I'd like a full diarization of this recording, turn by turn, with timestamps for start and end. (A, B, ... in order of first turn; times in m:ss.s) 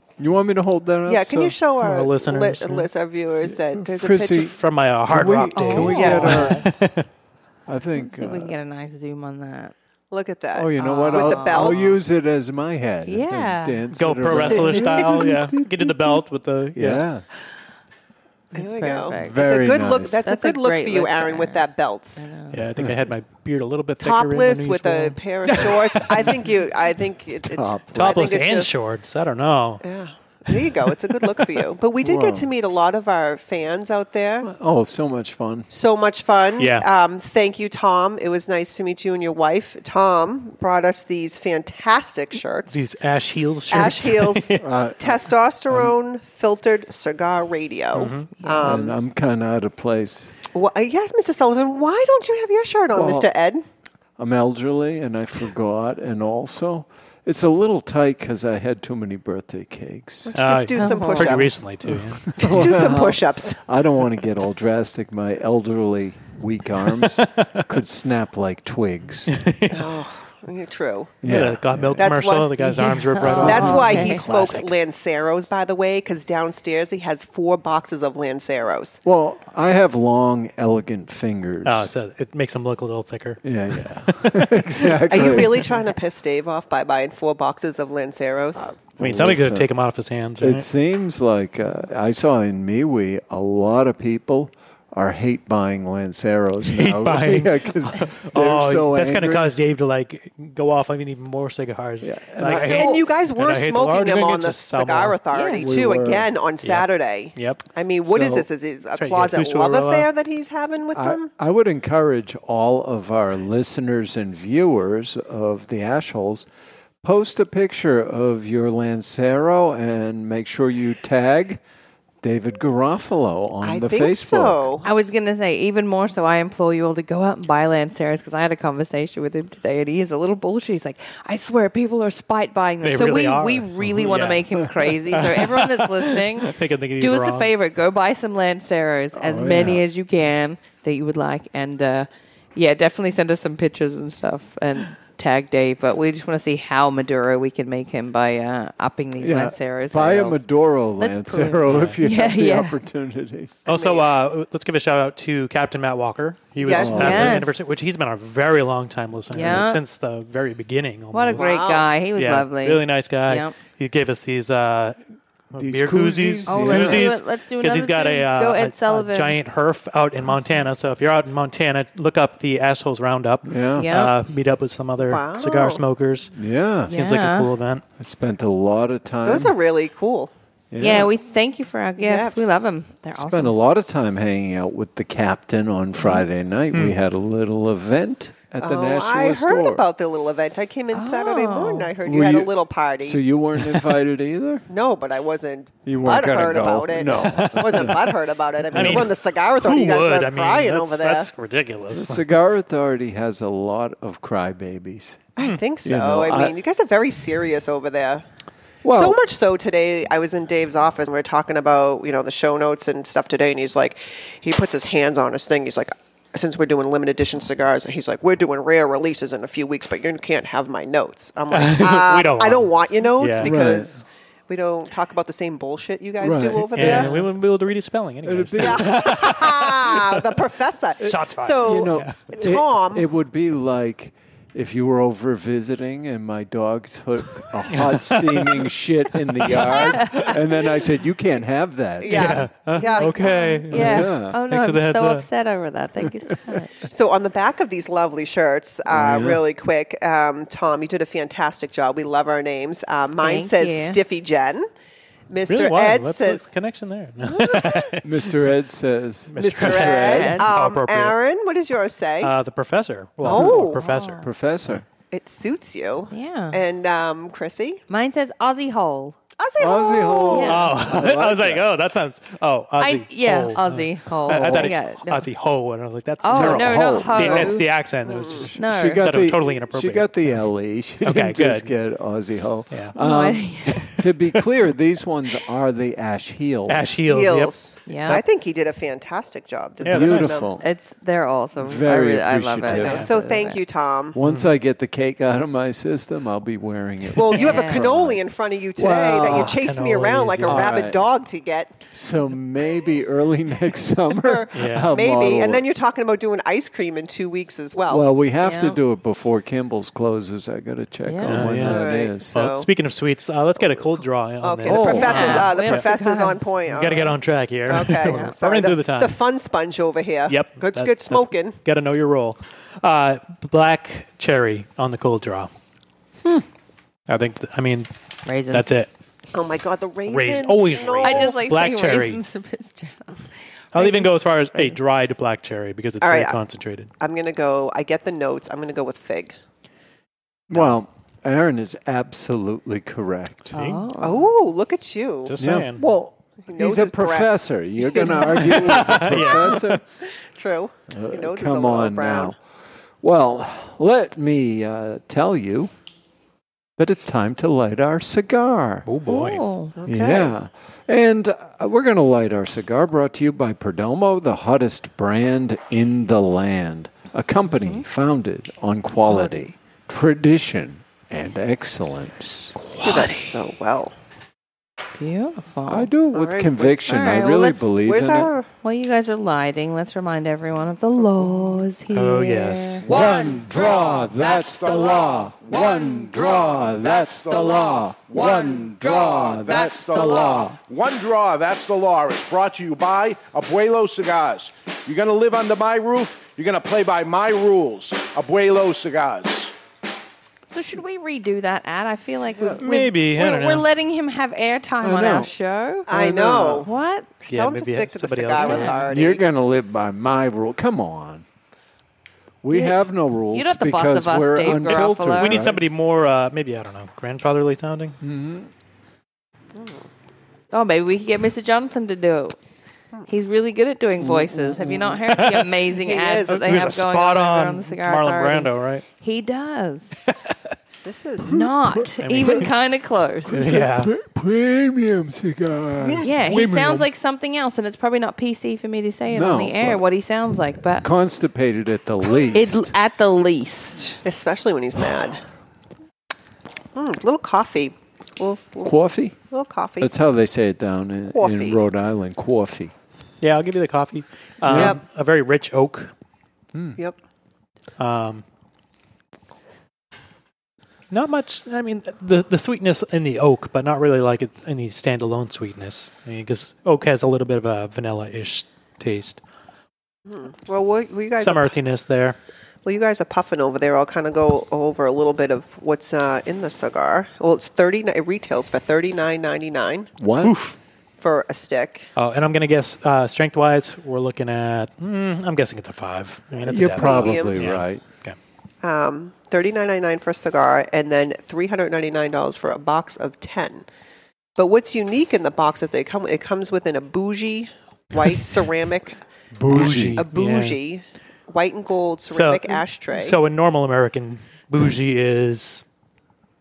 0:00.2-0:01.6 A
0:01.0-0:04.5 B
0:01.8-0:02.9 C
0:03.7-0:04.6 A
0:04.4-0:07.1 C
0:05.1-0:06.7 A
0:05.6-0:06.7 D
0:05.8-0:06.5 B
0:07.7-0:08.6 A
0:08.0-0:09.7 D
0:10.1-0:12.0 B
0:10.5-0:16.2 A
0:10.8-0:12.0 D
0:13.1-0:13.8 D
0:13.9-0:17.0 C
0:16.8-0:17.2 A
0:18.5-0:19.6 D
0:18.5-0:22.2 B
0:19.2-0:20.2 A
0:20.2-0:21.6 D
0:22.2-0:22.6 D
0:22.5-0:26.5 C
0:24.0-0:28.7 B
0:27.4-0:28.3 A
0:27.9-0:29.8 C
0:29.8-0:34.5 B
0:31.2-0:31.6 C
0:32.0-0:32.5 A
0:34.4-0:35.7 A
0:35.7-0:42.8 B
0:36.6-0:36.9 C
0:42.7-0:44.6 C
0:43.7-0:49.0 B
0:44.6-0:45.9 A
0:47.9-0:48.3 C
0:48.4-0:48.7 D
0:48.6-0:50.4 A
0:50.5-0:53.6 B
0:52.9-0:53.3 A
0:54.2-1:00.4 A
1:00.3-1:01.6 B
1:00.4-1:02.6 C
1:00.8-1:01.5 D
1:01.8-1:09.3 A
1:02.4-1:03.6 B
1:07.2-1:07.7 C
1:09.3-1:10.0 C
1:09.7-1:11.2 B
1:11.2-1:12.1 A
1:11.2-1:14.8 C
1:12.0-1:19.0 B
1:12.7-1:14.2 D
1:19.0-1:21.9 A
1:21.6-1:24.6 C
1:23.4-1:25.7 A
1:25.1-1:28.7 B
1:28.6-1:29.7 A
1:29.0-1:30.7 C
1:30.4-1:39.5 A
1:36.7-1:45.2 C
1:42.0-1:43.0 A
1:42.6-1:51.3 B
1:45.3-1:45.6 D
1:45.6-1:46.3 A
1:46.6-1:47.6 C
1:48.0-1:48.5 A
1:49.0-1:50.1 C
1:50.9-1:56.5 A
1:57.0-2:01.6 A
2:02.2-2:04.6 A
2:03.6-2:04.9 B
2:04.8-2:30.4 D
2:12.8-2:17.5 C
2:19.2-2:19.8 A
2:29.2-2:33.5 A
2:31.0-2:32.8 D
2:31.7-2:32.0 C
2:33.7-2:41.6 C
2:33.7-2:34.1 B
2:36.6-2:37.3 B
2:36.6-2:37.5 A
2:36.9-2:37.5 D
2:39.3-2:39.8 D
2:41.1-2:43.6 D
2:41.4-2:41.9 B
2:42.2-2:45.0 C
2:45.5-2:56.3 C
2:45.6-2:47.2 A
2:46.5-2:49.4 D
2:53.5-2:53.9 A
2:53.8-2:54.2 D
2:55.0-2:55.8 B
2:56.3-2:56.9 A
2:56.9-2:57.5 D
2:56.9-2:57.8 C
2:58.0-2:59.5 A
2:59.2-3:00.3 B
3:00.7-3:01.1 A
3:00.8-3:03.6 D
3:02.0-3:02.5 B
3:03.2-3:09.8 A
3:08.6-3:13.2 B
3:10.9-3:11.9 D
3:12.0-3:14.7 A
3:14.7-3:21.3 B
3:15.9-3:18.0 A
3:17.2-3:18.2 C
3:18.7-3:22.4 C
3:18.7-3:19.1 A
3:21.9-3:26.6 A
3:25.4-3:28.2 B
3:28.8-3:29.2 A
3:28.9-3:47.1 B
3:41.5-3:43.5 C
3:43.4-3:44.0 A
3:46.2-3:47.3 A
3:46.8-3:50.3 C
3:48.2-3:49.2 A
3:48.6-3:53.1 B
3:51.0-3:52.2 C
3:51.1-4:02.5 A
3:57.7-4:00.4 C
4:02.0-4:03.4 B
4:02.1-4:05.2 C
4:02.8-4:06.7 D
4:03.7-4:04.4 A
4:06.8-4:14.7 B
4:08.9-4:09.4 A
4:13.2-4:14.0 D
4:15.3-4:16.5 B
4:15.5-4:18.1 C
4:17.3-4:17.9 B
4:18.0-4:20.4 A
4:19.3-4:21.2 C
4:19.4-4:22.3 B
4:20.1-4:20.5 D
4:22.2-4:24.8 C
4:23.2-4:24.8 A
4:23.2-4:23.8 B
4:23.7-4:24.3 D
4:25.1-4:27.8 B
4:26.1-4:26.6 D
4:27.9-4:29.2 D
4:29.4-4:30.6 B
4:29.6-4:31.7 A
4:30.3-4:30.6 D
4:30.5-4:40.4 C
4:32.8-4:35.1 D
4:34.3-4:34.7 A
4:36.2-4:37.7 D
4:36.3-4:47.0 A
4:38.1-4:38.5 B
4:38.6-4:39.1 D
4:41.0-4:41.7 C
4:43.0-4:43.9 D
4:43.7-4:44.5 C
4:46.7-4:47.5 C
4:47.1-4:50.6 B
4:47.9-4:48.2 D
4:49.8-4:50.4 C
4:49.8-4:50.6 A
4:50.6-4:53.6 D
4:51.6-4:53.1 A
4:52.7-4:54.2 B
4:54.1-4:58.2 A
4:54.2-4:54.5 C
4:57.1-5:01.8 B
4:57.3-4:57.9 D
4:58.8-4:59.6 A
4:59.2-5:00.8 C
5:00.4-5:01.1 A
5:01.9-5:05.6 A
5:04.2-5:08.1 B
5:04.5-5:04.9 C
5:07.9-5:12.3 A
5:08.4-5:08.8 D
5:11.1-5:11.6 D
5:11.3-5:15.9 C
5:11.6-5:12.7 B
5:13.6-5:17.2 B
5:14.7-5:15.4 A
5:14.7-5:16.5 D
5:16.7-5:19.2 C
5:17.7-5:21.6 B
5:18.0-5:18.3 D
5:20.3-5:25.5 C
5:27.1-5:27.9 C
5:28.3-5:28.7 D
5:28.5-5:28.9 C
5:29.3-5:31.4 B
5:30.1-5:32.2 C
5:31.0-5:34.8 D
5:33.7-5:36.9 C
5:36.0-5:36.4 B
5:37.0-5:39.4 B
5:40.5-5:43.5 A
5:43.5-5:44.3 D
5:43.5-5:43.9 C
5:44.0-5:45.4 B
5:45.2-5:45.8 C
5:45.4-5:49.8 A
5:46.5-5:52.4 B
5:48.4-5:49.8 C
5:50.9-5:52.4 A
5:53.0-5:55.7 A
5:56.8-5:58.9 A
5:58.9-5:59.4 C
5:59.1-5:59.7 D
5:59.8-6:00.3 B
5:59.8-6:12.6 A
6:12.6-6:13.3 C
6:12.8-6:13.9 B
6:15.0-6:15.9 D
6:15.7-6:18.3 A
6:16.1-6:16.9 B
6:16.8-6:17.7 D
6:17.8-6:18.5 B
6:18.6-6:22.8 D
6:21.9-6:22.9 C
6:22.9-6:30.6 A
6:22.9-6:39.5 E
6:40.5-6:47.1 D
6:42.6-6:43.7 C
6:44.8-6:45.3 A
6:45.9-6:46.7 B
6:45.9-6:46.6 A
6:47.2-6:49.2 B
6:47.3-6:48.9 C
6:48.4-6:48.8 D
6:48.9-6:51.2 A
6:52.4-6:55.6 A
6:52.5-6:52.8 D
6:53.3-6:55.5 D
6:54.5-6:58.0 C
6:58.0-6:58.5 A
6:59.6-6:59.9 B
7:00.5-7:02.4 D
7:03.1-7:10.0 D
7:04.0-7:05.0 A
7:05.1-7:05.5 C
7:05.7-7:06.6 B
7:06.3-7:08.8 C
7:10.1-7:10.3 C
7:10.8-7:11.5 B
7:11.3-7:13.4 D
7:12.0-7:12.5 C
7:13.3-7:16.8 A
7:13.3-7:13.9 C
7:16.0-7:20.9 D
7:19.1-7:19.8 A
7:20.8-7:22.7 A
7:22.1-7:24.0 D
7:24.0-7:25.2 B
7:26.8-7:29.9 B
7:28.6-7:29.2 A
7:29.8-7:32.7 A
7:31.1-7:31.6 B
7:33.2-7:35.9 C
7:34.4-7:34.8 A
7:34.4-7:34.8 B
7:36.5-7:36.8 A
7:37.8-7:38.2 C
7:40.9-7:49.2 C
7:50.1-7:51.6 B
7:51.2-7:52.2 C
7:52.6-7:59.9 B
8:00.0-8:00.4 A
8:00.2-8:00.6 C
8:01.0-8:01.9 B
8:02.0-8:08.2 C
8:06.5-8:07.8 A
8:06.5-8:07.4 B
8:08.6-8:13.7 B
8:14.4-8:19.0 B
8:19.4-8:20.0 A
8:19.5-8:20.6 C
8:19.5-8:23.2 B
8:22.1-8:25.6 C